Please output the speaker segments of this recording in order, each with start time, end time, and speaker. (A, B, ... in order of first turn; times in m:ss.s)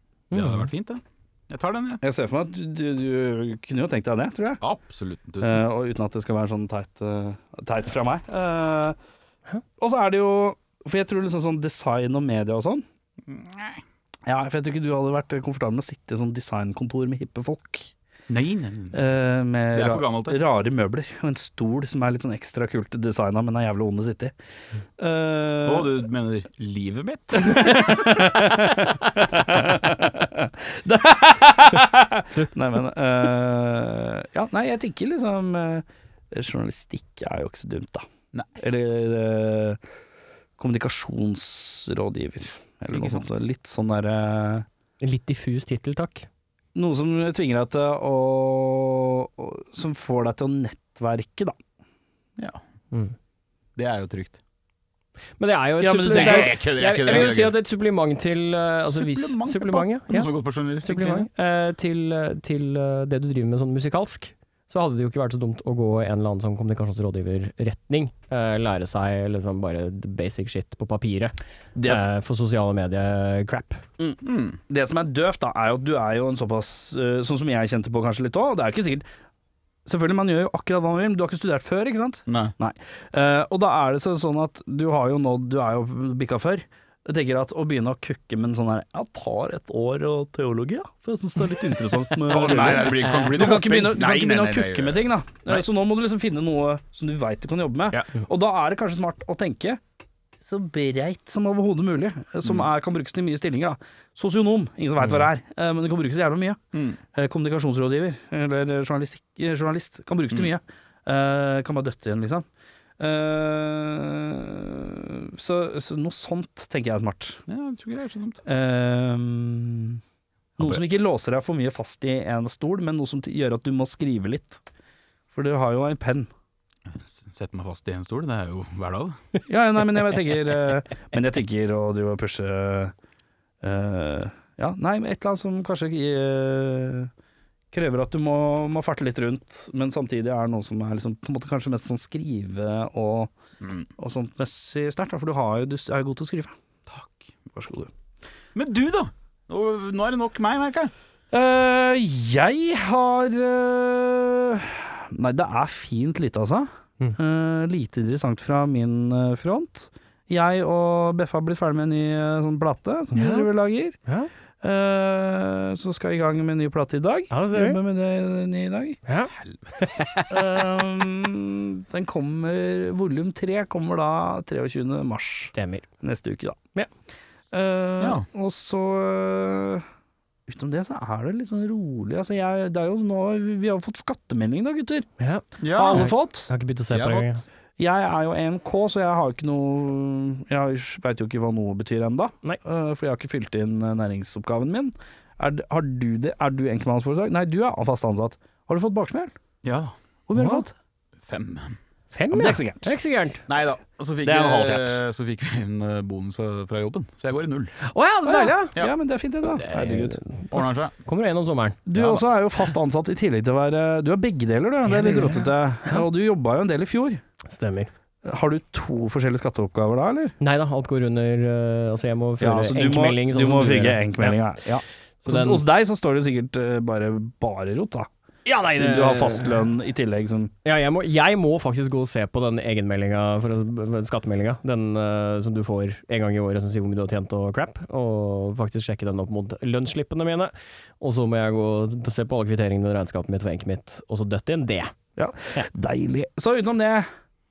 0:00.3-0:00.7 A
0:00.3-0:02.0 B
0:02.0-0:04.6 C
0:04.6-0:05.6 B
0:05.4-0:09.0 C
0:09.8-0:12.8 C
0:13.3-0:13.8 B
0:14.3-0:17.9 C
0:18.3-0:19.0 B
0:18.9-0:24.3 C
0:19.7-0:20.4 B
0:25.0-0:25.9 C
0:25.6-0:28.2 B
0:27.4-0:38.1 C
0:38.6-0:39.8 C
0:40.6-0:44.7 C
0:42.9-0:43.3 B
0:45.0-0:46.3 A
0:46.8-0:51.6 C
0:53.8-0:54.4 B
0:55.4-1:00.3 A
0:55.8-0:56.6 C
0:56.1-0:57.6 B
0:58.9-1:01.3 B
1:00.8-1:13.8 A
1:11.8-1:12.1 C
1:14.0-1:19.1 C
1:14.2-1:14.6 B
1:19.8-1:39.8 C
1:22.3-1:22.5 B
1:32.3-1:35.6 B
1:40.4-1:46.6 C
1:46.7-1:47.0 B
1:47.1-1:52.5 C
1:53.0-1:57.4 C
1:57.5-1:58.4 B
1:58.4-2:00.0 C
2:00.6-2:04.6 C
2:05.3-2:06.3 C
2:06.9-2:09.2 B
2:09.5-2:12.9 C
2:13.6-2:17.1 C
2:17.7-2:23.3 C
2:24.0-2:26.5 C
2:26.9-2:27.3 B
2:27.5-2:27.9 C
2:28.6-2:30.9 B
2:31.3-2:44.0 C
2:43.1-2:43.5 A
2:44.0-2:44.3 A
2:44.6-2:49.0 C
2:47.3-2:47.8 A
2:49.1-2:50.1 A
2:49.4-2:50.2 B
2:50.3-2:56.6 C
2:55.5-2:55.9 A
2:57.5-2:59.8 C
2:58.0-2:58.3 B
3:00.5-3:05.1 C
3:05.2-3:07.4 A
3:05.6-3:06.1 B
3:05.7-3:06.5 C
3:06.9-3:07.4 B
3:07.8-3:19.3 C
3:19.6-3:19.9 B
3:20.3-3:20.7 C
3:20.4-3:20.6 A
3:21.3-3:21.8 B
3:22.1-3:23.4 A
3:22.3-3:22.9 C
3:23.5-3:27.8 B
3:24.2-3:25.0 C
3:27.8-3:28.8 A
3:28.3-3:30.2 C
3:29.5-3:32.2 A
3:30.5-3:30.9 B
3:31.9-3:37.2 C
3:34.9-3:36.0 A
3:37.5-3:37.9 A
3:38.2-3:40.3 C
3:40.4-3:44.5 A
3:42.4-3:48.1 C
3:45.2-3:45.6 A
3:48.4-3:49.7 A
3:48.7-3:50.5 C
3:50.6-4:04.9 A
4:05.2-4:07.1 C